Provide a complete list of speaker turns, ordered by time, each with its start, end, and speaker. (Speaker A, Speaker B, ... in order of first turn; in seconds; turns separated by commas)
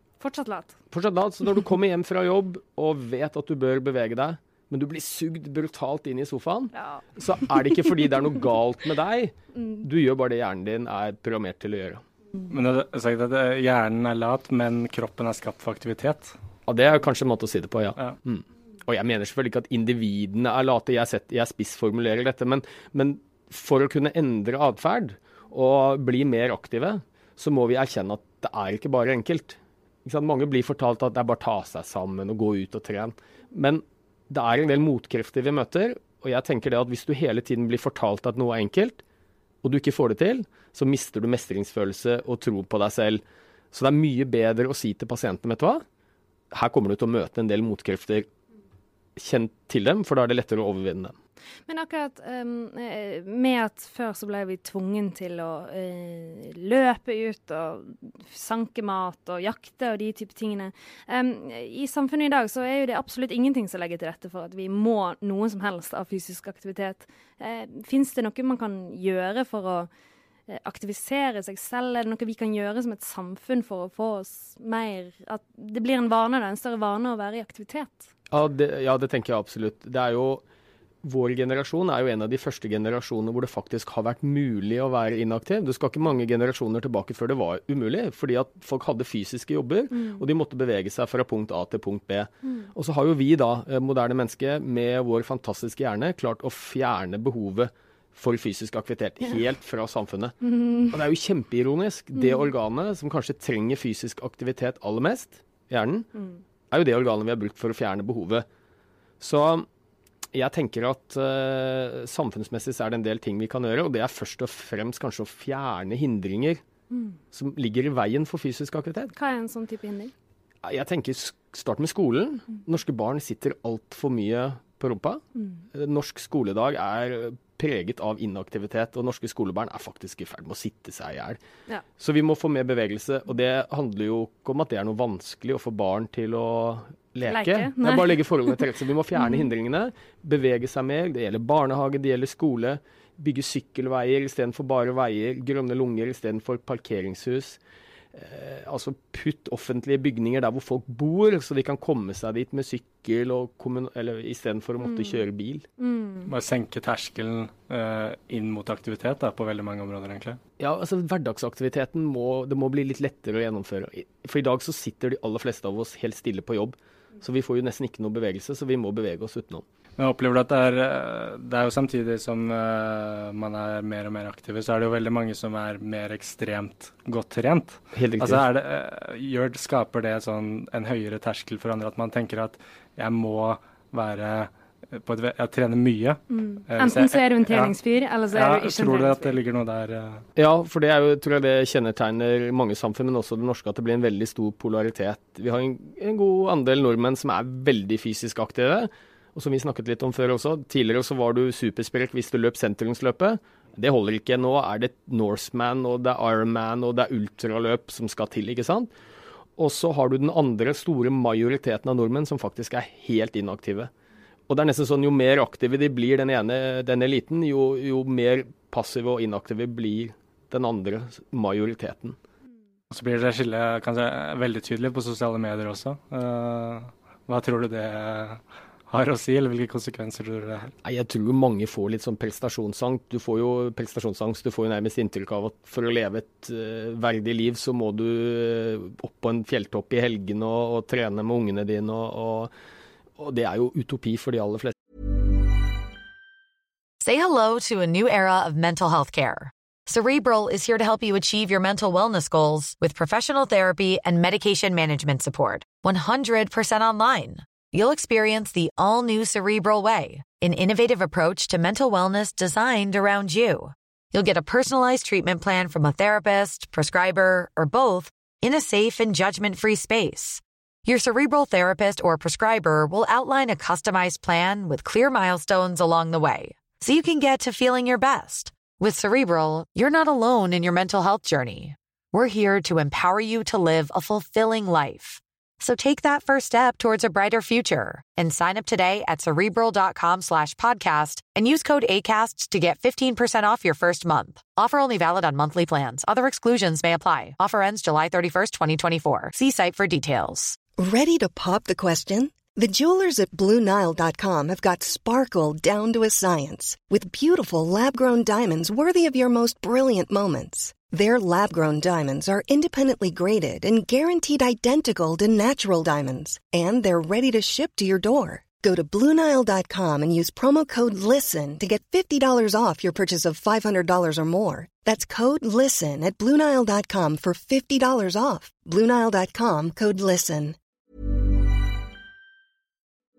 Speaker A: 0.2-0.8, Speaker B: 0.9-12.0, Speaker A: 6.7-7.0, Speaker C: 12.5-16.3, Speaker B: 16.7-39.0, Speaker B: 39.6-45.8, Speaker B: 46.5-48.3, Speaker B: 49.1-51.1, Speaker A: 51.7-69.9, Speaker A: 70.5-78.1, Speaker B: 78.3-80.4, Speaker B: 81.0-106.1, Speaker A: 89.9-90.2, Speaker A: 100.5-100.9, Speaker B: 106.7-108.5, Speaker B: 109.2-109.7, Speaker B: 110.3-116.6, Speaker B: 117.3-119.1, Speaker A: 119.1-120.1, Speaker B: 120.6-125.2, Speaker B: 125.7-131.4, Speaker B: 132.0-147.6, Speaker A: 137.3-138.2, Speaker B: 148.1-155.7, Speaker A: 154.8-155.2, Speaker A: 155.8-156.3, Speaker C: 156.2-160.4, Speaker B: 160.6-169.6, Speaker C: 170.0-187.7, Speaker B: 177.9-178.4, Speaker A: 186.3-189.3, Speaker C: 188.3-190.2, Speaker B: 190.3-208.9, Speaker B: 209.6-213.9, Speaker B: 214.5-222.2, Speaker C: 222.9-230.7, Speaker B: 230.8-242.5, Speaker B: 243.2-244.7, Speaker D: 247.0-300.6, Speaker E: 300.8-330.6